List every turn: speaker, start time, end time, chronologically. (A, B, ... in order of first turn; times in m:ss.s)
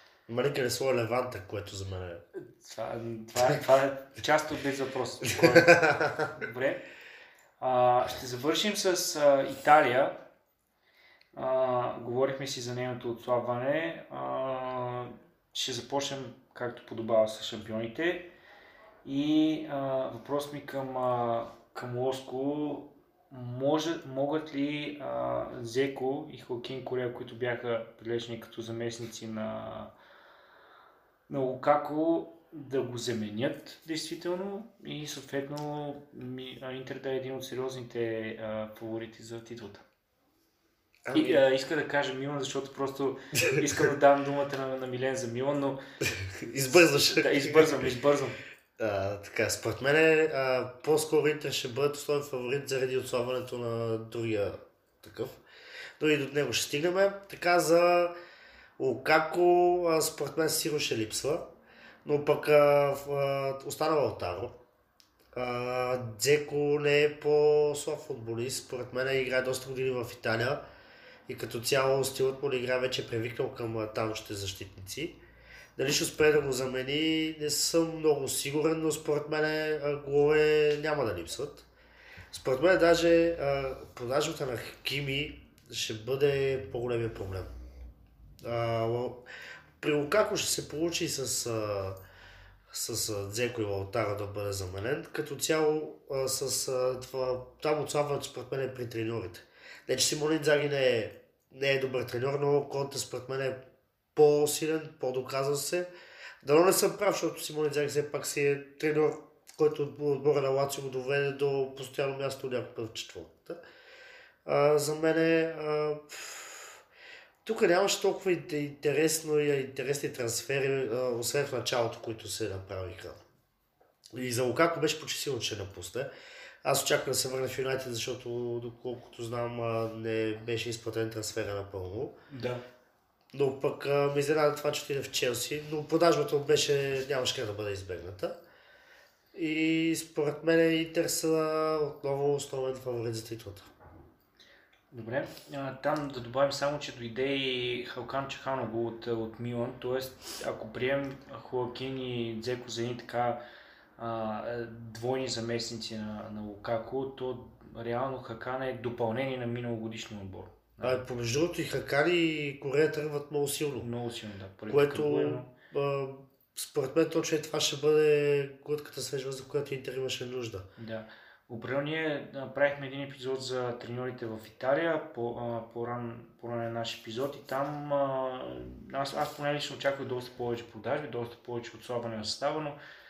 0:00.3-0:02.2 A
0:02.4-0:06.8 B
0:05.4-0:06.2 A
0:07.6-0:10.2 B
0:11.3-0:18.3 B
0:19.0-0:29.9 B
0:31.3-0:39.8 B
0:41.0-0:41.4 A
0:41.1-0:45.8 B
0:46.2-0:47.9 A
0:46.7-0:48.4 B
0:48.8-0:55.4 A
0:56.0-0:58.1 A
0:58.8-1:01.5 A
1:02.0-1:04.6 A
1:05.3-1:10.6 A
1:11.3-1:15.2 A
1:15.8-1:21.6 A
1:22.3-1:27.5 A
1:28.4-1:29.2 A
1:29.8-1:32.0 A
1:32.7-1:43.6 A
1:44.1-1:45.9 A
1:46.4-1:53.6 A
1:54.4-1:56.8 A
1:57.4-2:03.2 A
2:04.1-2:06.1 A
2:06.6-2:12.1 A
2:12.3-2:12.6 B
2:13.3-2:18.4 A
2:19.3-2:23.7 A
2:24.9-2:33.4 B
2:34.0-2:41.0 B
2:40.8-2:43.9 A
2:43.8-2:45.5 B
2:44.7-2:50.7 A
2:50.8-3:02.8 B